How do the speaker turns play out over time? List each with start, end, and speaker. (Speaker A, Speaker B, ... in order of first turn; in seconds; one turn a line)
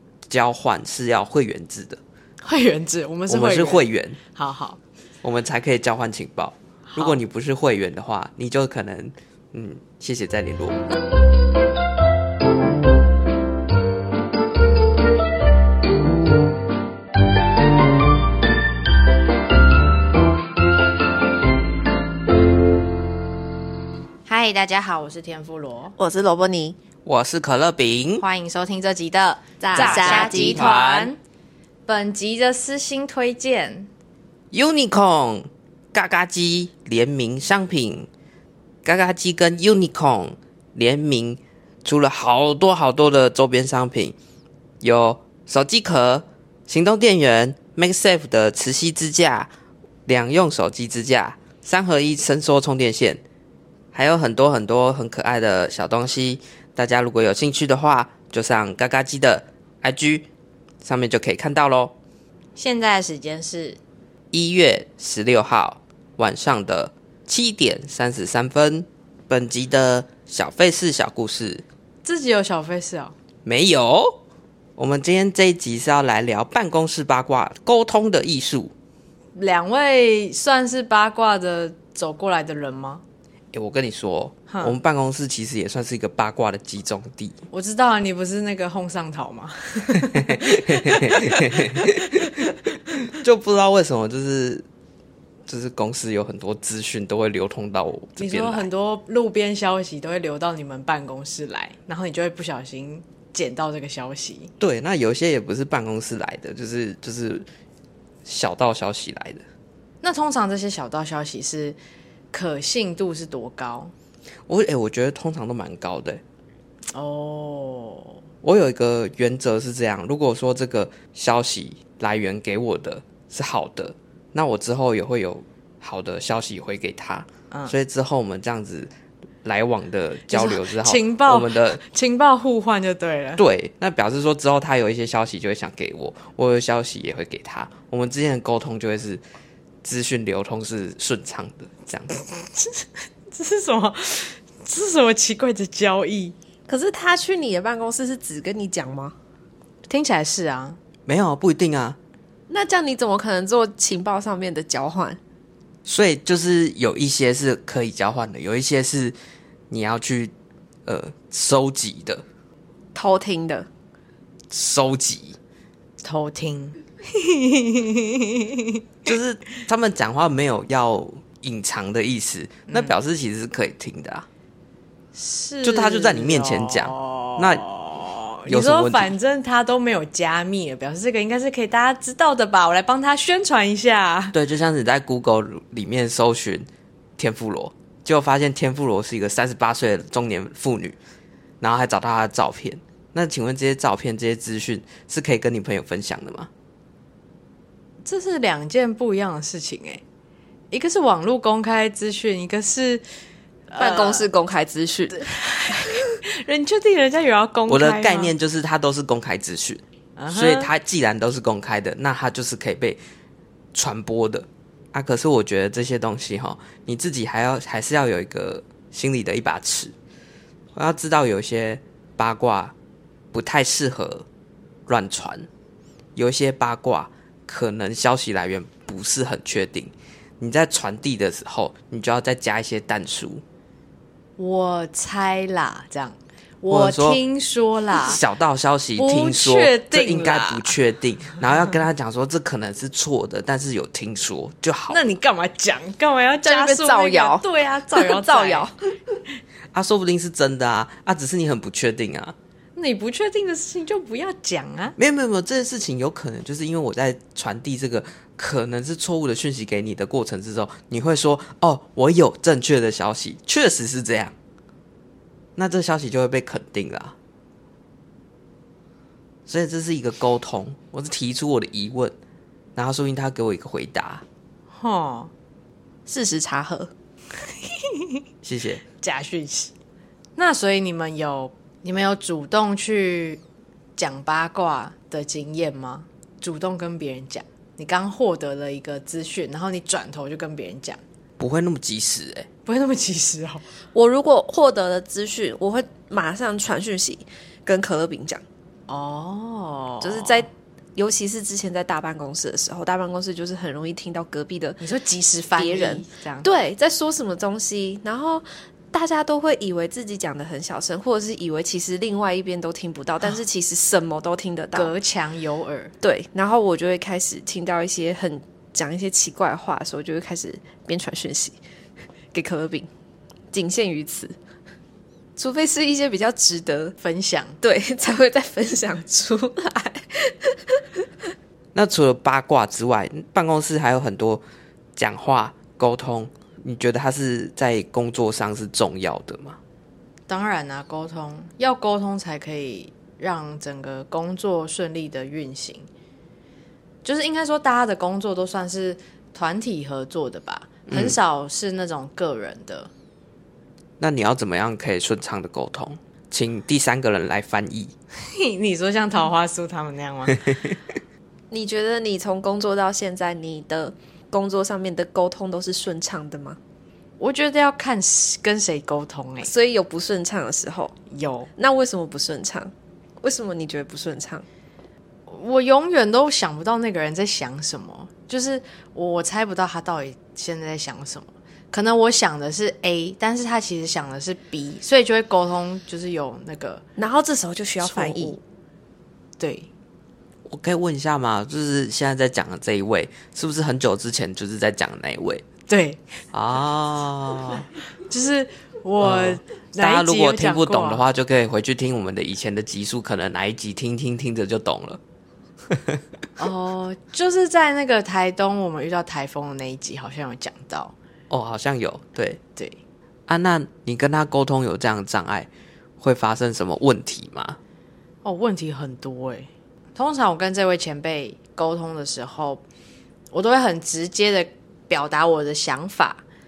Speaker A: 0.3-2.0
Speaker B: 2.4-4.8
Speaker A: 3.3-4.2
Speaker A: 5.2-10.8
Speaker B: 6.9-7.2
Speaker B: 24.3-26.0
Speaker C: 26.0-26.8
Speaker A: 27.1-28.2
Speaker B: 28.2-31.2
Speaker C: 29.7-30.8
Speaker A: 29.8-31.1
Speaker B: 31.9-33.9
Speaker A: 34.5-38.1
Speaker A: 38.9-44.2
Speaker A: 44.8-49.5
Speaker A: 50.1-53.2
Speaker A: 53.9-60.3
Speaker A: 60.8-62.0
Speaker B: 62.6-63.8
Speaker A: 64.3-71.6
Speaker B: 72.0-73.1
Speaker A: 73.5-74.2
Speaker A: 74.8-78.7
Speaker B: 79.4-83.0
Speaker A: 83.5-87.4
Speaker B: 87.5-91.9
Speaker A: 90.1-94.7
Speaker A: 95.5-98.7
Speaker B: 98.2-104.5
Speaker A: 104.6-107.5
Speaker A: 108.2-109.4
Speaker B: 110.0-111.8
Speaker B: 112.3-113.9
Speaker A: 114.5-116.2
Speaker B: 116.9-118.2
Speaker A: 118.4-128.9
Speaker A: 129.4-131.8
Speaker B: 130.3-133.4
Speaker A: 133.4-139.2
Speaker A: 139.8-142.2
Speaker B: 142.2-146.3
Speaker C: 146.7-149.2
Speaker B: 149.9-150.8
Speaker A: 151.1-152.0
Speaker C: 152.5-155.2
Speaker A: 155.9-159.2
Speaker A: 159.7-160.3
Speaker A: 160.9-162.2
Speaker C: 162.9-163.7
Speaker A: 164.5-165.4
Speaker B: 166.0-168.8
Speaker A: 169.1-174.3
Speaker B: 172.7-173.0
Speaker B: 175.2-184.4
Speaker A: 175.6-177.7
Speaker A: 178.5-179.1
Speaker A: 184.3-186.7
Speaker A: 187.2-191.0
Speaker A: 191.6-196.5
Speaker B: 198.1-200.0
Speaker B: 200.7-203.0
Speaker B: 203.7-204.3
Speaker C: 203.8-205.2
Speaker B: 205.1-208.3
Speaker A: 207.7-213.0
Speaker B: 210.2-210.7
Speaker A: 213.7-219.9
Speaker A: 220.8-222.8
Speaker A: 223.3-224.2
Speaker A: 224.9-225.5
Speaker A: 226.2-233.4
Speaker B: 234.4-238.2
Speaker A: 236.7-237.2
Speaker A: 238.1-245.1
Speaker B: 239.0-240.8
Speaker B: 244.9-248.7
Speaker C: 246.4-248.7
Speaker A: 249.7-252.3
Speaker B: 252.8-254.9
Speaker A: 255.0-264.4
Speaker A: 265.6-267.1
Speaker A: 269.5-272.2
Speaker A: 272.8-274.2
Speaker B: 274.8-275.3
Speaker C: 276.1-276.9
Speaker B: 277.7-278.2
Speaker A: 278.4-278.8
Speaker B: 279.0-279.7
Speaker B: 280.4-283.4
Speaker B: 284.0-291.0
Speaker A: 291.4-292.5
Speaker B: 292.7-293.6
Speaker C: 293.9-298.4
Speaker B: 298.9-300.5
Speaker C: 300.0-304.8
Speaker B: 304.8-306.5
Speaker C: 305.6-314.9
Speaker B: 314.8-315.9
Speaker C: 316.0-321.6
Speaker C: 322.3-322.9
Speaker C: 323.5-324.4
Speaker C: 325.4-326.9
Speaker B: 327.0-327.6
Speaker C: 327.6-331.1
Speaker A: 331.8-334.4
Speaker A: 335.0-339.6
Speaker B: 340.3-345.9
Speaker B: 347.1-352.9
Speaker A: 350.9-351.2
Speaker A: 354.0-357.9
Speaker B: 358.2-360.8
Speaker C: 361.5-366.6
Speaker B: 367.2-369.5
Speaker C: 369.4-371.0
Speaker B: 371.1-371.5
Speaker C: 371.6-374.5
Speaker B: 375.3-386.8
Speaker C: 387.0-388.4
Speaker B: 387.8-388.4
Speaker B: 389.4-389.7
Speaker A: 390.5-395.4
Speaker B: 395.7-396.0
Speaker A: 396.3-397.7
Speaker B: 398.1-401.0
Speaker A: 399.0-405.0
Speaker A: 405.7-406.0
Speaker B: 406.4-410.9
Speaker A: 411.3-412.4
Speaker A: 413.3-417.6
Speaker B: 418.2-422.6
Speaker B: 423.3-426.2